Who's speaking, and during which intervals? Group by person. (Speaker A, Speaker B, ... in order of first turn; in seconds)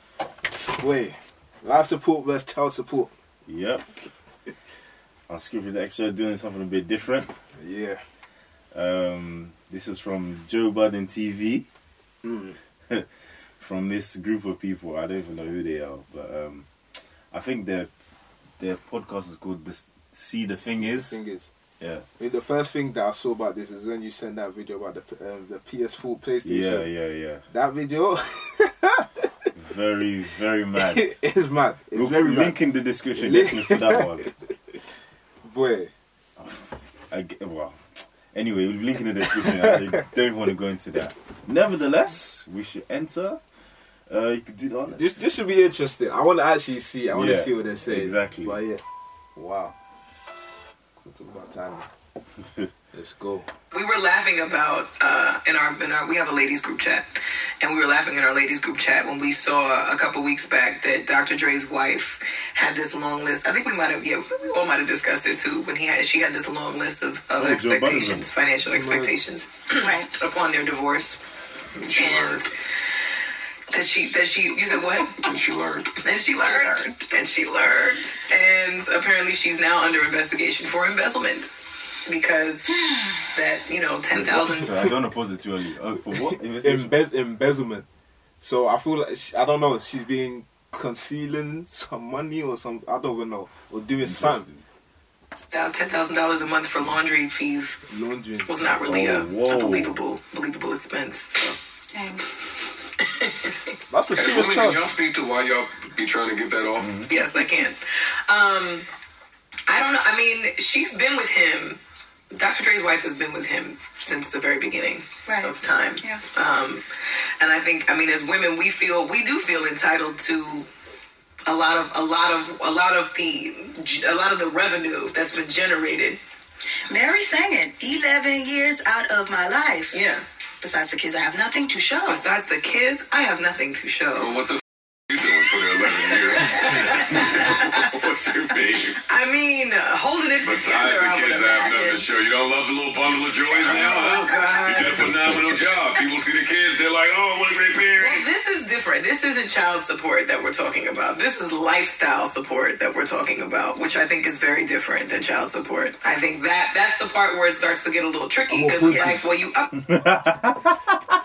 Speaker A: 0.7-3.1, 7.5-8.0, 12.2-12.6, 20.6-21.5, 22.2-26.9, 27.5-29.2, 30.8-32.5, 33.1-34.3, 35.4-35.9, 39.2-39.8, 45.0-48.8, 49.4-49.8, 51.0-51.9, 52.9-53.5, 68.7-69.1, 86.1-87.9, 88.4-94.5, 97.9-98.5, 103.9-105.0, 158.5-159.4
Speaker B: 3.5-4.0, 5.3-7.3, 8.7-11.7, 12.9-16.7, 17.3-17.9, 18.6-21.2, 21.8-22.1, 26.4-27.4, 29.6-31.2, 31.9-34.2, 36.4-37.8, 38.3-43.4, 44.1-45.3, 47.1-48.5, 67.4-68.3, 84.1-86.9, 94.0-94.6, 98.6-100.0, 106.8-107.1, 144.8-145.4, 159.8-161.0
Speaker C: 53.7-71.2, 71.9-72.5, 73.7-75.2, 76.0-81.5, 82.0-82.8, 83.3-84.7, 95.5-97.8, 98.4-101.5, 103.0-103.7, 107.1-108.9, 109.7-111.8, 112.3-116.8, 117.4-120.7, 121.5-126.2, 129.9-130.2, 132.0-134.3, 136.0-137.9, 139.1-142.1, 143.5-145.2, 148.0-159.7
Speaker D: 69.8-70.1, 101.9-102.2, 115.2-116.2, 126.9-130.0, 130.6-132.2
Speaker E: 71.8-72.5, 75.2-76.0, 104.1-107.0, 134.2-139.0, 140.4-148.2